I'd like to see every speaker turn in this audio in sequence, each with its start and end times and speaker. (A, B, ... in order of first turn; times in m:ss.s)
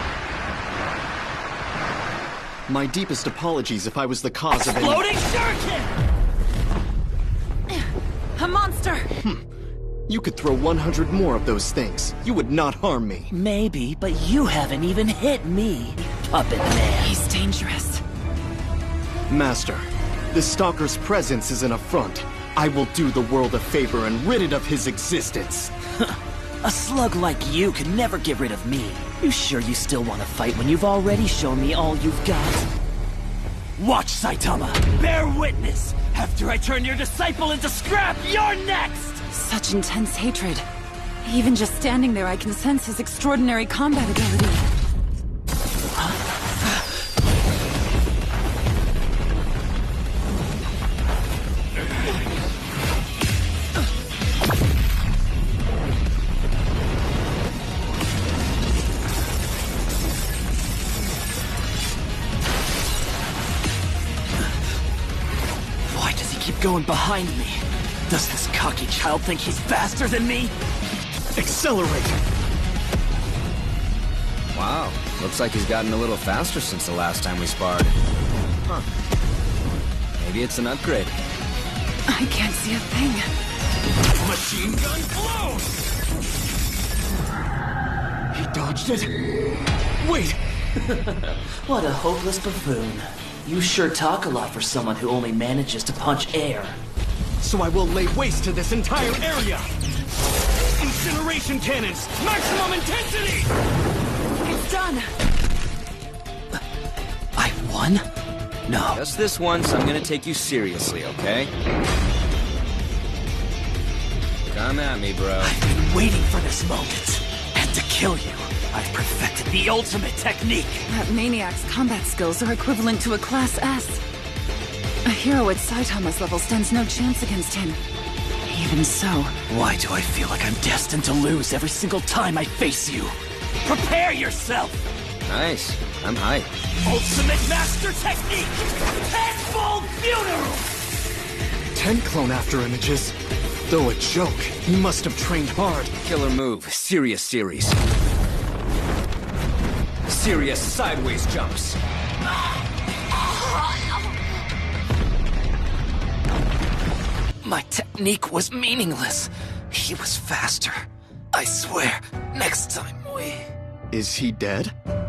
0:02.7-0:05.1 A
0:04.6-0:05.9 B
0:08.4-0:09.1 C
0:10.1-0:13.3 A
0:13.3-0:17.1 B
0:17.0-0:18.0 C
0:19.3-0:25.7 A
0:26.0-0:32.7 B
0:33.8-0:39.2 B
0:39.3-0:40.7 C
0:41.2-0:44.7 C
1:05.9-1:10.5 B
1:11.3-1:12.2 A
1:14.5-1:18.0 D
1:20.2-1:21.1 D
1:22.1-1:23.3 C
1:24.3-1:25.7 A
1:28.3-1:29.2 A
1:30.0-1:30.4 A
1:30.9-1:36.8 B
1:37.4-1:39.7 A
1:40.8-1:43.5 A
1:44.4-1:45.1 C
1:47.4-1:48.0 B
1:48.7-1:49.0 B
1:48.9-1:51.5 D
1:54.4-1:55.6 D
1:55.4-2:00.9 B
2:00.9-2:04.0 C
2:05.0-2:07.8 C
2:08.4-2:09.4 C
2:09.5-2:14.8 B
2:15.2-2:16.5 D
2:16.8-2:20.6 B
2:21.7-2:23.2 A
2:23.7-2:25.9 A
2:26.0-2:27.8 D
2:30.1-2:31.8 D
2:37.4-2:43.4 B
2:43.9-2:44.7 A